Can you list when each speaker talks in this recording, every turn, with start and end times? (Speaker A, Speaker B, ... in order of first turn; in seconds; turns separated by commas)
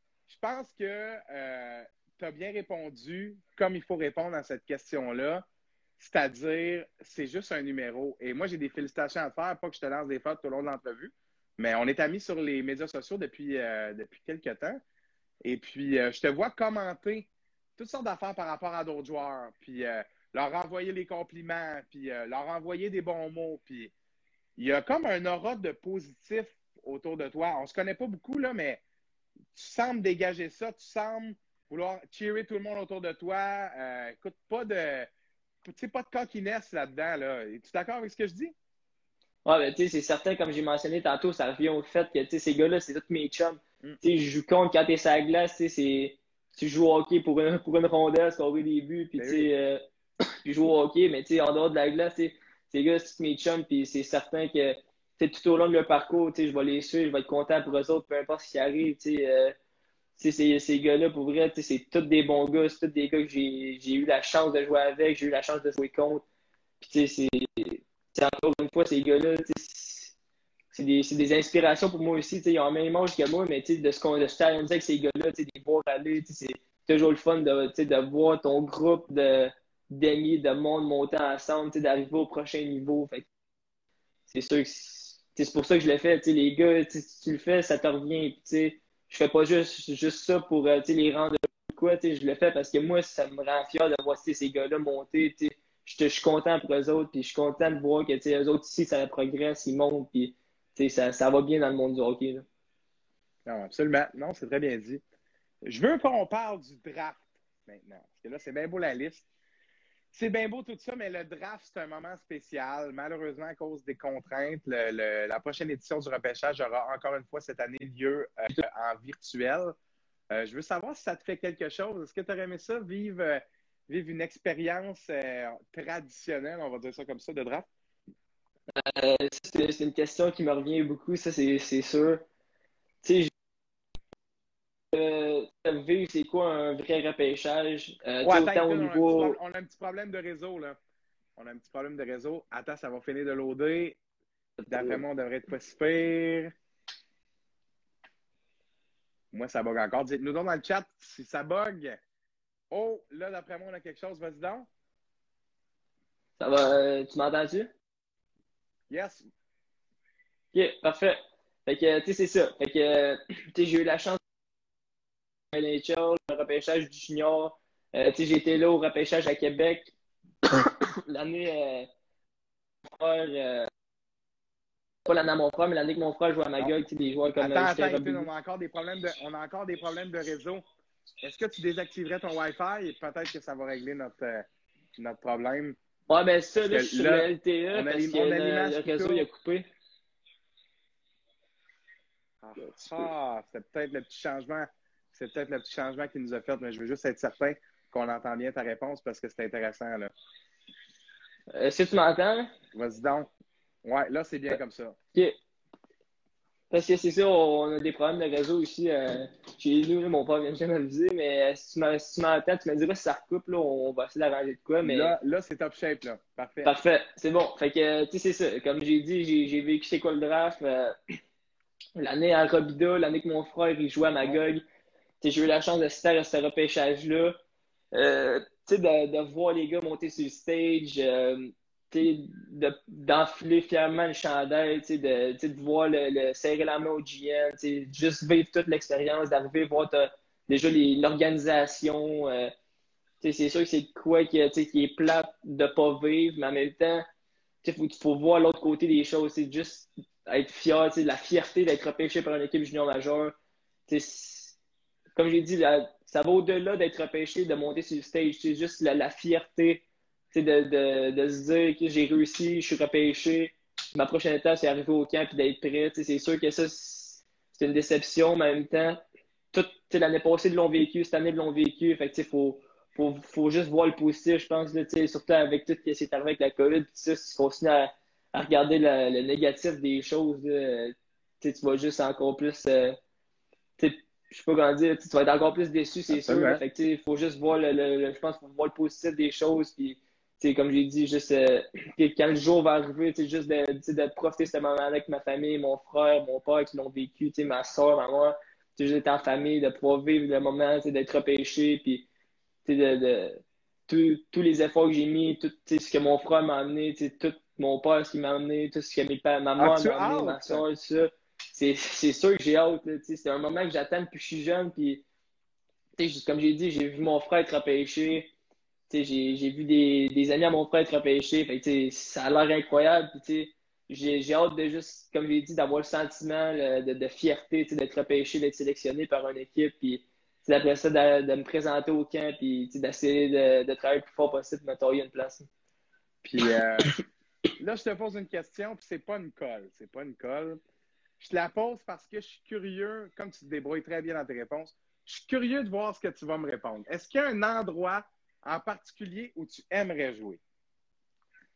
Speaker A: 0.3-5.5, Speaker A: 6.0-14.8, Speaker A: 15.4-23.9, Speaker A: 24.6-28.8, Speaker A: 29.5-35.1, Speaker A: 35.6-38.5, Speaker B: 39.5-49.8, Speaker A: 49.2-49.5, Speaker B: 50.4-59.5, Speaker B: 60.2-66.2, Speaker B: 66.8-70.1, Speaker B: 70.7-83.3, Speaker B: 84.3-102.5, Speaker A: 103.5-105.0, Speaker A: 105.7-109.3, Speaker A: 110.1-119.8, Speaker A: 120.3-127.7, Speaker B: 128.8-132.2, Speaker B: 133.0-133.3, Speaker B: 134.9-139.4, Speaker A: 138.2-140.8, Speaker A: 141.4-144.0, Speaker B: 144.6-145.0, Speaker A: 144.7-146.5, Speaker A: 149.3-152.0, Speaker A: 152.7-154.7, Speaker B: 156.4-157.7, Speaker A: 158.9-159.3, Speaker B: 160.5-164.2, Speaker B: 165.5-169.9, Speaker B: 170.5-171.9, Speaker B: 173.0-173.7, Speaker B: 175.1-178.3, Speaker A: 177.4-180.6, Speaker A: 181.2-184.5, Speaker A: 185.0-185.8, Speaker B: 186.1-189.7, Speaker A: 186.7-189.3, Speaker A: 192.4-200.1, Speaker B: 192.6-193.1, Speaker B: 201.5-202.5, Speaker A: 202.7-203.3, Speaker A: 203.8-205.0, Speaker B: 206.7-215.2, Speaker A: 214.8-216.7, Speaker B: 216.6-221.0, Speaker B: 222.0-224.6, Speaker B: 225.2-227.4, Speaker B: 227.9-242.5, Speaker B: 243.2-247.1, Speaker B: 247.6-253.3, Speaker B: 253.9-254.6, Speaker B: 255.2-269.0, Speaker B: 269.5-283.0, Speaker B: 283.8-302.1, Speaker A: 286.1-286.6, Speaker B: 302.6-315.1, Speaker A: 309.6-310.6, Speaker B: 316.0-318.3, Speaker B: 318.9-335.5, Speaker A: 336.2-336.9, Speaker A: 337.6-340.6, Speaker A: 341.2-350.4